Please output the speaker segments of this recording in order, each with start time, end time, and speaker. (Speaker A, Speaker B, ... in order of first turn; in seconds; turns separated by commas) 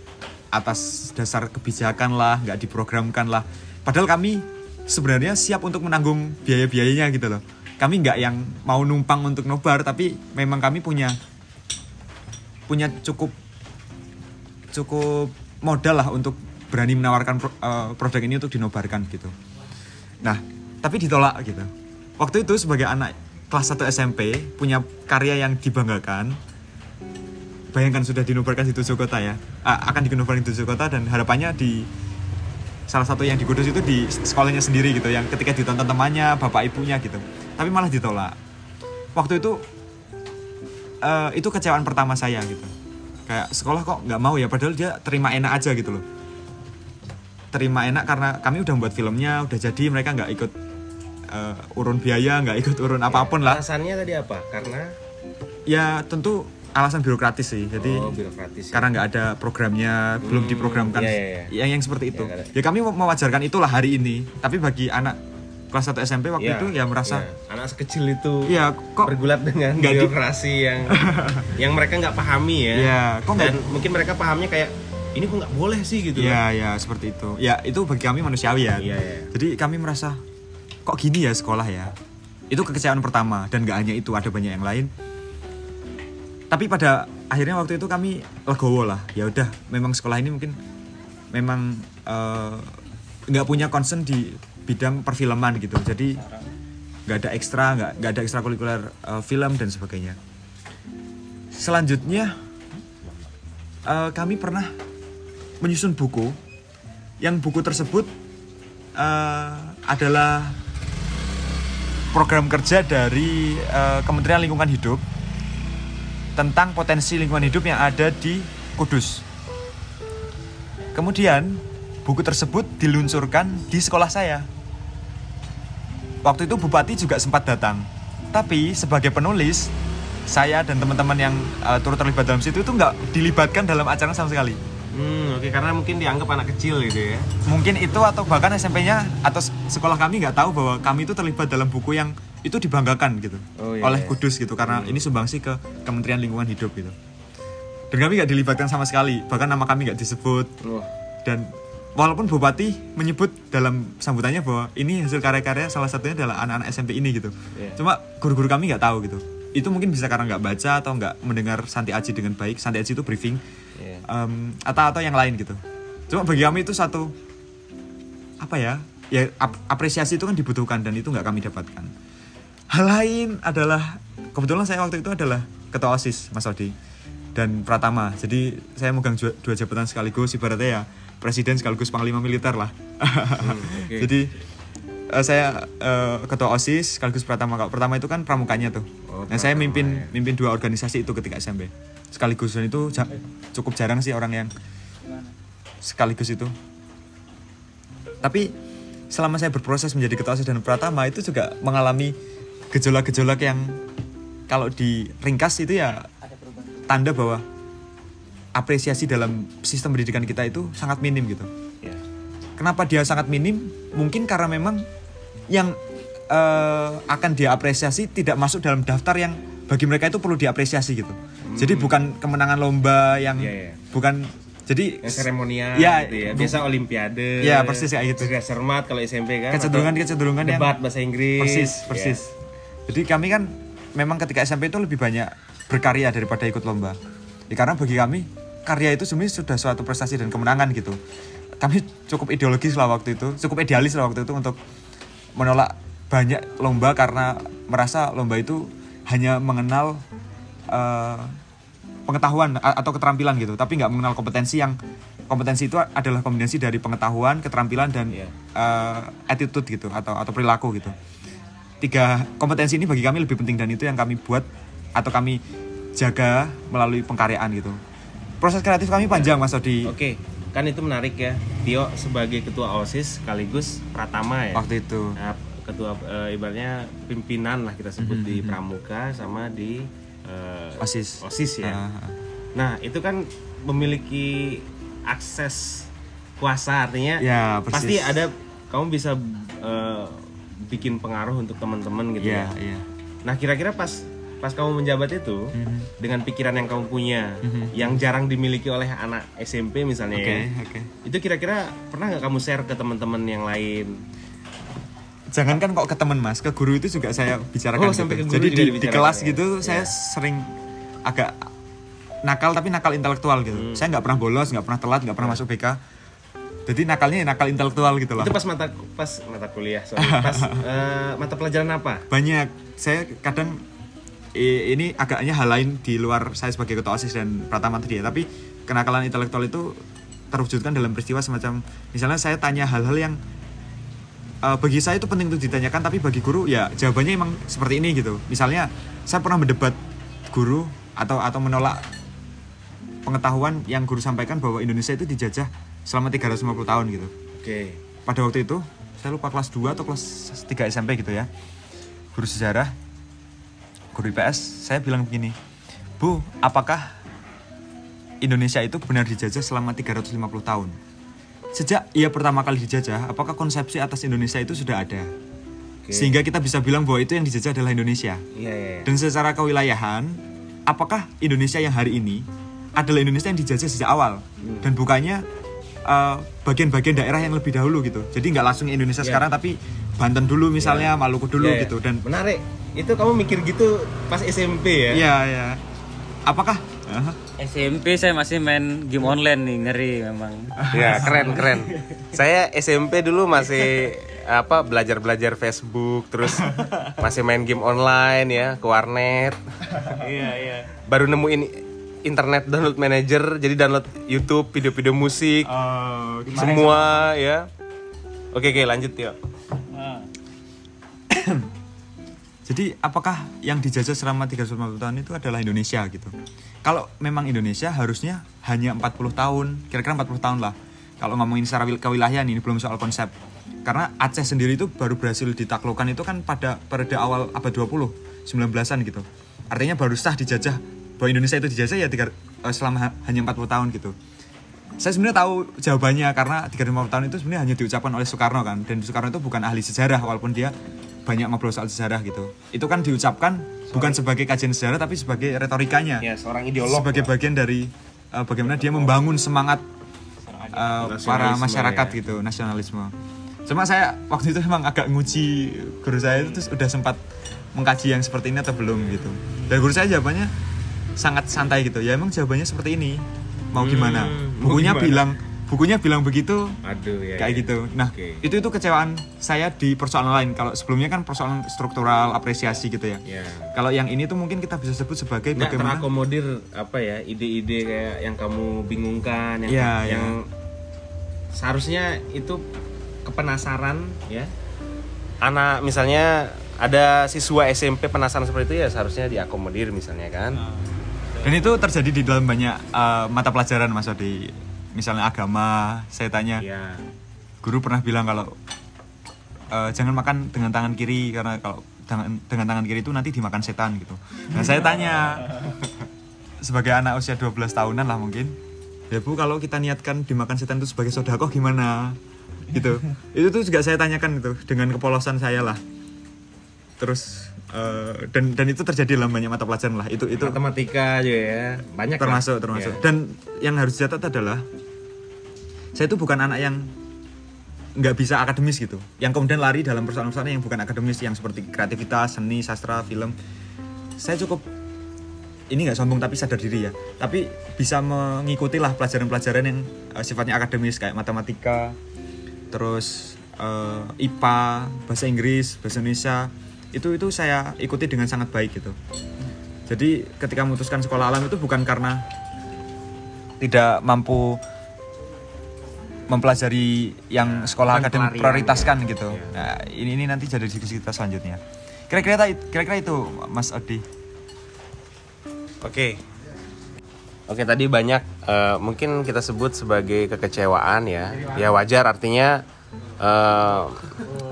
Speaker A: 0.5-11.2, Speaker A: 12.7-13.3, Speaker A: 14.7-19.3, Speaker A: 20.2-26.4, Speaker A: 27.7-31.9, Speaker A: 32.9-38.4, Speaker A: 39.1-39.6, Speaker A: 41.0-42.7, Speaker A: 43.3-46.0, Speaker A: 47.5-50.5, Speaker A: 51.3-53.6, Speaker B: 53.1-54.9, Speaker A: 55.7-58.1, Speaker B: 57.8-58.9, Speaker A: 58.7-65.2, Speaker B: 60.2-61.5, Speaker B: 62.1-62.5, Speaker A: 65.7-67.3, Speaker B: 66.4-71.0, Speaker A: 68.5-69.2, Speaker A: 69.8-70.1, Speaker A: 70.9-71.5, Speaker B: 71.5-76.4, Speaker A: 72.7-73.6, Speaker A: 76.1-80.2, Speaker B: 78.8-79.3, Speaker A: 80.8-81.9, Speaker A: 82.5-84.9, Speaker A: 86.5-90.6, Speaker A: 91.3-96.2, Speaker A: 97.1-100.2, Speaker A: 101.5-102.4, Speaker A: 103.8-104.8, Speaker A: 105.6-106.4, Speaker A: 107.2-108.1, Speaker A: 109.0-110.6, Speaker A: 112.1-115.0, Speaker A: 116.3-119.2, Speaker A: 120.9-124.5, Speaker A: 126.2-129.7, Speaker A: 130.3-134.6, Speaker B: 134.9-137.3, Speaker A: 137.4-146.9, Speaker B: 143.6-145.0, Speaker A: 147.9-150.5, Speaker B: 150.6-150.9, Speaker A: 151.2-163.4, Speaker B: 157.5-157.8, Speaker B: 163.8-164.0, Speaker A: 164.0-167.1, Speaker A: 168.4-171.9, Speaker A: 172.7-176.7, Speaker A: 177.3-184.3, Speaker B: 183.4-184.1, Speaker A: 185.1-194.5, Speaker B: 189.1-190.1, Speaker A: 195.8-196.5, Speaker A: 198.2-198.5, Speaker A: 199.1-202.2, Speaker A: 202.7-203.8, Speaker A: 204.5-206.1, Speaker A: 206.9-207.4, Speaker A: 208.5-211.5, Speaker A: 212.6-214.9, Speaker A: 215.5-215.8, Speaker A: 216.3-226.6, Speaker B: 221.5-222.0, Speaker B: 223.3-223.8, Speaker B: 225.0-229.9, Speaker A: 227.4-228.3, Speaker A: 229.5-230.7, Speaker B: 230.4-232.2, Speaker A: 231.4-232.3, Speaker A: 232.9-237.0, Speaker A: 237.5-241.0, Speaker A: 241.6-244.6, Speaker A: 245.3-250.0, Speaker A: 250.7-251.4, Speaker A: 252.1-254.8, Speaker A: 255.3-260.9, Speaker A: 261.8-265.4, Speaker A: 265.9-267.8, Speaker A: 268.4-269.9, Speaker B: 269.1-274.7, Speaker A: 274.5-275.1, Speaker B: 275.2-281.8, Speaker A: 278.0-278.6, Speaker A: 280.8-282.1, Speaker B: 282.5-285.9, Speaker B: 286.4-292.5, Speaker A: 287.2-288.2, Speaker A: 292.2-292.8, Speaker B: 293.2-300.5, Speaker A: 295.5-295.9, Speaker A: 297.4-297.9, Speaker A: 300.1-300.9, Speaker B: 301.0-304.0, Speaker A: 305.3-310.5, Speaker B: 307.7-309.9, Speaker A: 311.1-311.5, Speaker A: 312.2-315.8, Speaker B: 313.5-313.9, Speaker A: 316.6-318.3, Speaker B: 318.2-322.1, Speaker A: 320.0-320.6, Speaker A: 322.1-323.6, Speaker A: 324.3-333.2, Speaker A: 334.4-339.8, Speaker A: 340.3-341.9, Speaker A: 343.1-347.1, Speaker B: 347.4-347.8, Speaker A: 348.1-351.3, Speaker A: 352.1-352.7, Speaker A: 353.9-355.4, Speaker A: 356.0-356.9, Speaker A: 358.2-360.8, Speaker A: 361.5-365.1, Speaker B: 365.8-366.1, Speaker A: 365.9-368.2, Speaker B: 368.3-368.9, Speaker A: 368.8-372.2, Speaker A: 372.8-375.2, Speaker B: 374.4-374.7, Speaker A: 375.9-382.0, Speaker B: 380.6-385.0, Speaker A: 384.9-385.6, Speaker A: 386.2-387.2, Speaker C: 387.4-390.7, Speaker A: 390.6-391.6, Speaker B: 390.7-405.5, Speaker A: 396.4-397.0, Speaker C: 400.0-400.6, Speaker A: 405.5-406.9, Speaker B: 406.3-407.5, Speaker B: 408.3-409.2, Speaker A: 411.1-411.4, Speaker A: 412.4-423.1, Speaker A: 423.6-433.9, Speaker A: 434.8-440.5, Speaker A: 441.0-446.1, Speaker B: 443.7-444.0, Speaker B: 446.0-447.1, Speaker A: 446.6-449.6, Speaker A: 450.5-452.9, Speaker B: 450.6-452.0, Speaker A: 453.4-457.0, Speaker B: 456.1-456.4, Speaker A: 457.5-460.3, Speaker A: 461.0-466.6, Speaker B: 463.5-465.1, Speaker B: 466.6-468.2, Speaker A: 467.1-473.0, Speaker B: 473.1-473.5, Speaker A: 473.5-475.9, Speaker B: 475.4-480.3, Speaker A: 479.5-480.1, Speaker B: 481.3-482.4, Speaker B: 483.1-484.3, Speaker B: 485.2-490.4, Speaker A: 491.2-496.4, Speaker B: 496.4-496.8, Speaker A: 497.4-498.4, Speaker A: 499.5-505.6, Speaker A: 506.4-508.4, Speaker A: 508.9-512.0, Speaker A: 512.5-515.6, Speaker A: 516.8-520.4, Speaker B: 520.1-522.8, Speaker A: 522.0-524.5, Speaker A: 525.7-526.7, Speaker A: 527.8-533.1, Speaker A: 534.0-534.5, Speaker A: 535.5-541.8, Speaker A: 542.5-548.8, Speaker A: 549.7-552.0, Speaker A: 553.4-554.4, Speaker A: 556.1-563.8, Speaker B: 557.2-559.4, Speaker B: 565.6-566.0, Speaker B: 567.3-572.4, Speaker B: 573.0-574.0